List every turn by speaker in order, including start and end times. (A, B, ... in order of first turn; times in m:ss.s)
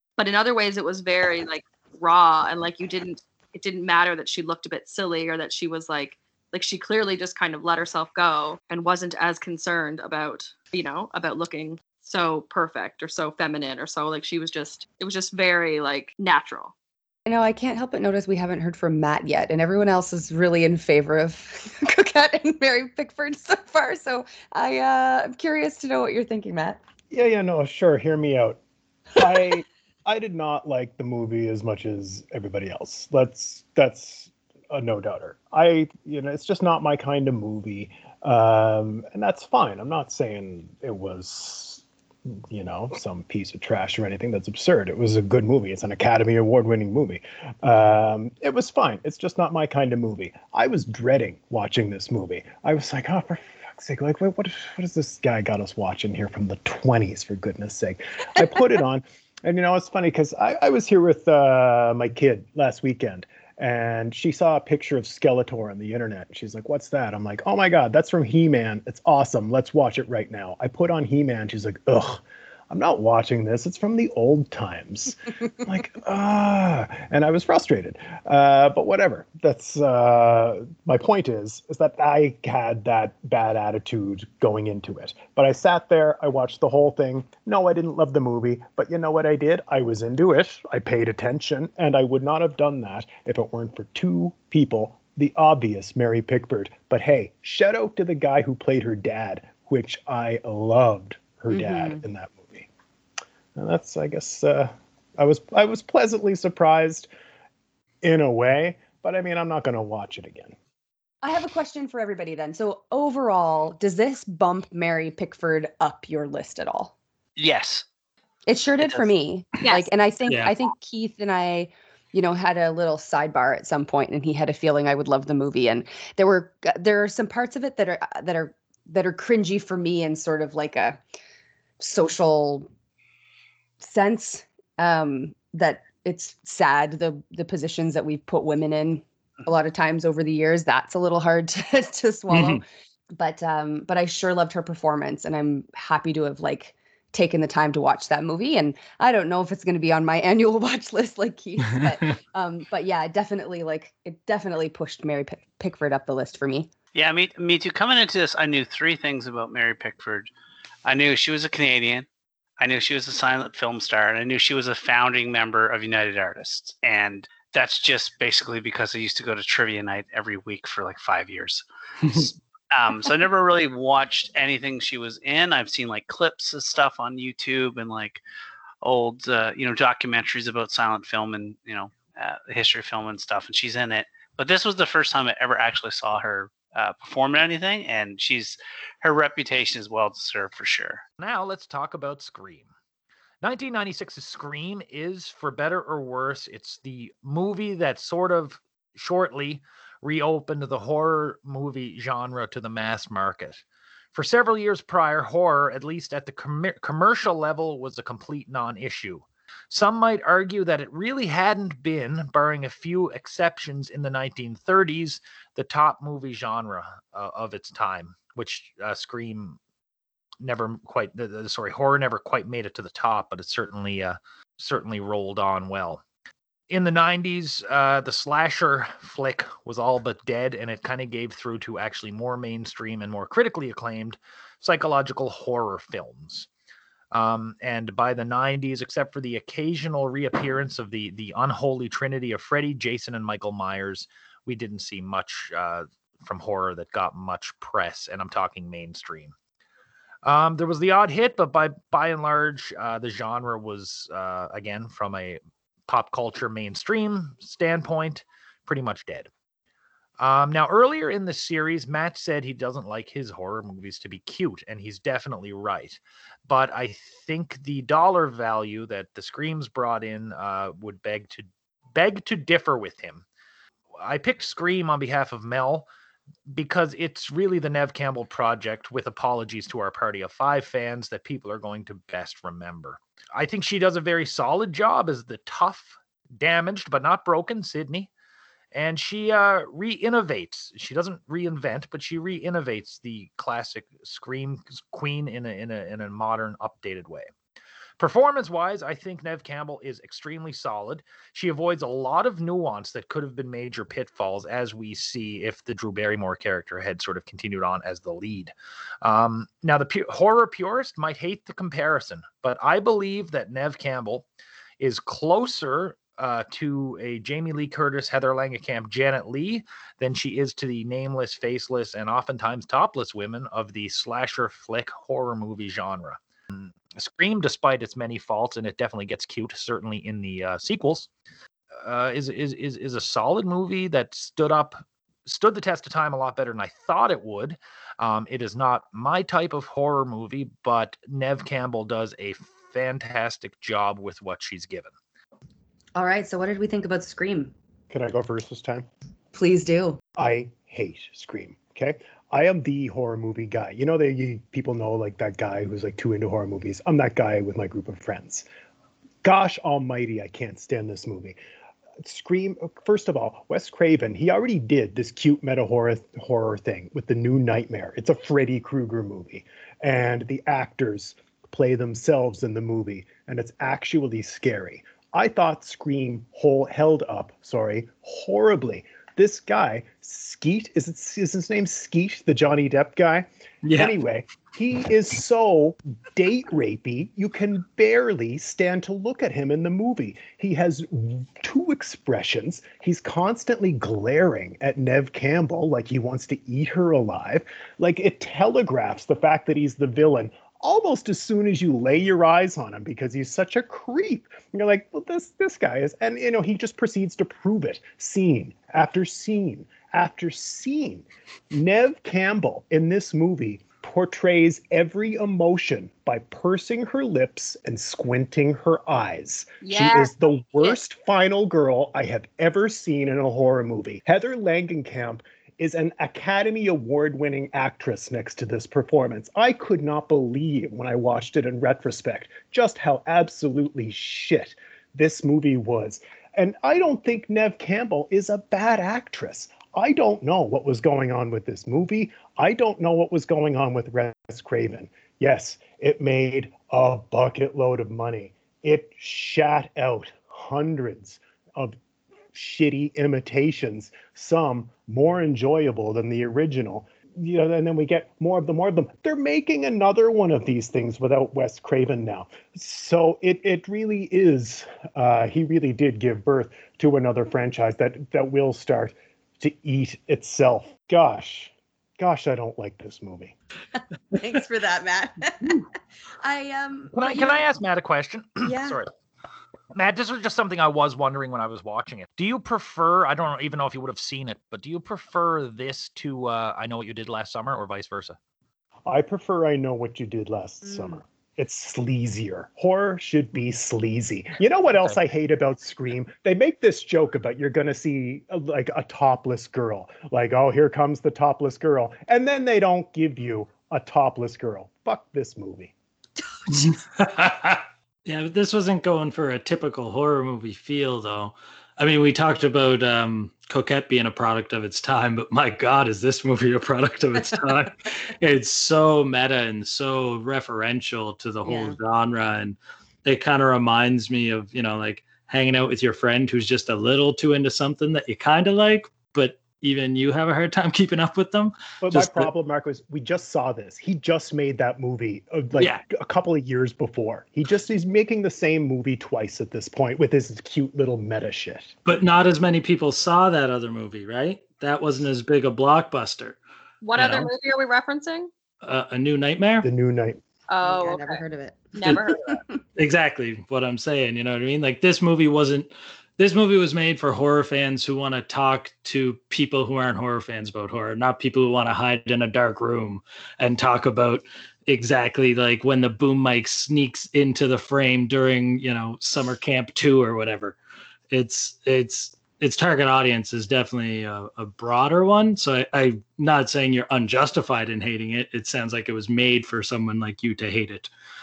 0:00.2-0:16.7 A
0:17.3-0:26.8 B
0:27.1-0:28.6 C
0:29.2-1:42.7 C
1:41.5-1:42.0 B
1:43.6-1:47.1 C
1:48.0-1:50.6 C
1:51.2-1:57.0 B
1:57.4-1:57.8 D
1:58.5-2:11.0 B
1:59.6-1:59.9 A
2:00.3-2:00.5 E
2:11.8-2:12.7 B
2:13.8-2:36.7 B
2:22.3-2:22.6 E
2:31.7-2:32.0 E
2:37.0-2:40.3 D
2:40.8-2:42.1 D
2:42.6-2:58.2 D
2:52.0-2:52.3 E
2:58.8-3:11.0 D
3:11.2-3:12.7 F
3:13.4-3:23.6 F
3:24.1-3:39.6 F
3:40.4-3:46.0 F
3:46.7-3:56.5 F
3:57.1-4:09.3 F
4:10.2-4:19.3 F
4:20.2-4:33.2 F
4:34.0-4:35.9 F
4:36.5-4:48.1 F
4:48.7-4:57.3 F
4:58.0-5:14.3 F
5:14.8-5:31.1 F
5:31.8-5:44.9 F
5:46.0-5:47.5 B
5:47.9-5:48.9 C
5:49.3-5:50.0 B
5:50.2-5:58.5 C
5:59.2-6:01.4 C
6:02.0-7:31.8 C
6:23.6-6:24.0 E
6:59.6-7:00.8 A
7:32.3-7:53.4 C
7:53.7-7:55.6 B
7:56.2-7:57.5 B
7:56.9-7:58.9 F
7:58.4-7:58.8 B
7:59.7-8:08.2 F
8:08.9-8:25.7 C
8:26.5-8:52.3 E
8:41.4-8:41.8 B
8:51.8-9:01.8 C
8:55.6-8:55.8 E
9:01.8-9:06.4 E
9:06.8-9:08.3 A
9:07.0-9:07.3 E
9:08.6-9:09.7 E
9:09.6-9:10.2 C
9:10.5-9:11.2 A
9:10.6-9:12.6 B
9:11.8-9:12.4 A
9:12.8-9:30.6 E
9:31.1-9:40.9 E